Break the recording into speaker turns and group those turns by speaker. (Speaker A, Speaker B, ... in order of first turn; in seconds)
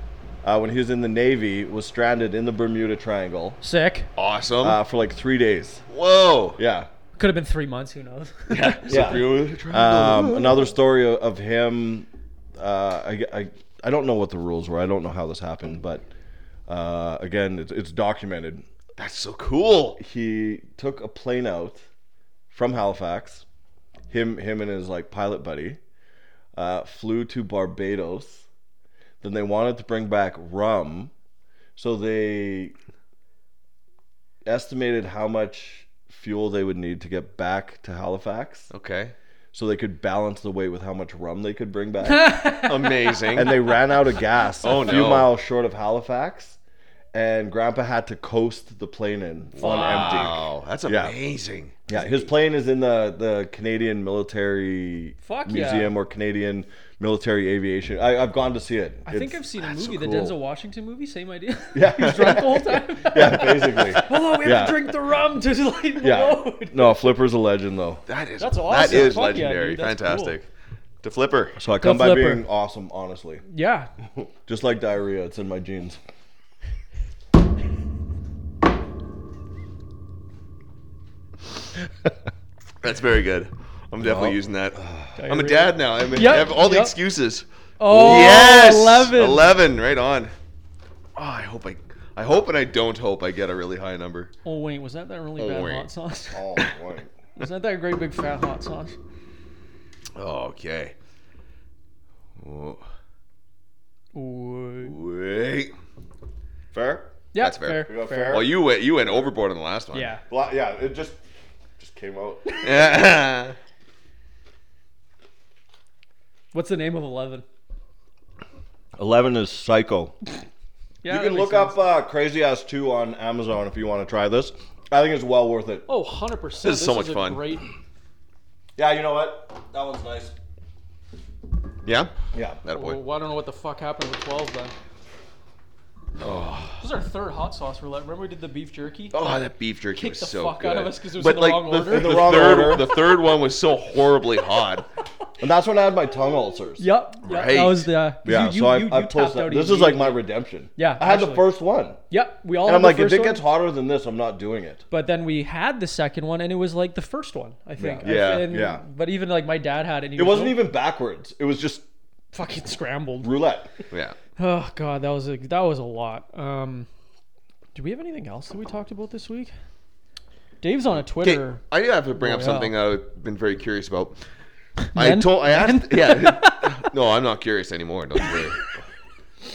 Speaker A: 0.4-3.6, 4.6-5.8, 6.6-6.9, 8.9-16.0, 16.7-18.6, 20.0-21.8, 22.5-23.4, 24.1-25.8, 26.5-28.4, 29.2-31.1, 31.8-32.7, 34.4-38.7, 39.5-42.3, 43.4-46.6, 47.1-51.1, 51.9-60.3, 61.7-64.9, 66.0-68.0, 68.8-69.2, 71.6-73.4, 74.2-76.0, 84.0-85.1, 88.0-88.3, 96.3-97.1, 106.7-107.1, 107.8-108.5, 110.3-111.2, 111.8-112.9, 119.0-120.2, 121.1-125.9, 128.8-130.3, 132.3-132.6, 141.9-142.9, 145.4-146.8, 148.2-152.0, 152.6-154.8, 157.8-158.8, 160.2-161.8, 163.2-163.7
Speaker B: 3.6-4.1, 7.2-8.9, 42.0-43.2, 49.6-50.4, 55.2-55.9, 59.1-67.1, 68.4-70.4, 71.8-72.4, 73.5-73.9, 85.2-86.9, 87.8-89.5, 94.4-96.7, 97.4-99.0, 104.1-105.0, 107.3-108.4, 109.9-110.2, 116.5-117.4, 121.0-121.8, 125.9-127.7, 132.7-134.7, 136.8-139.2, 140.0-143.0, 146.8-150.2, 150.8-151.5, 152.1-153.4, 154.9-160.6, 162.3-163.3, 164.4-166.9, 167.8-169.5, 170.6-171.6, 172.2-172.7, 174.8-176.9, 178.2-178.6
Speaker C: 4.2-4.8, 5.9-6.6, 8.5-10.7, 19.0-20.0, 38.7-39.1, 42.6-43.6, 44.6-45.3, 49.6-51.8, 68.1-70.5, 71.0-71.6, 82.8-90.3, 91.2-94.3, 95.4-95.9, 100.1-100.9, 102.4-102.8, 104.8-105.7, 107.4-110.1, 112.6-113.6, 126.6-127.5, 131.8-132.1, 132.6-133.0, 136.2-136.8, 139.1-144.8, 147.2-147.9, 158.0-158.6, 163.9-164.2, 171.2-174.2, 174.9-178.6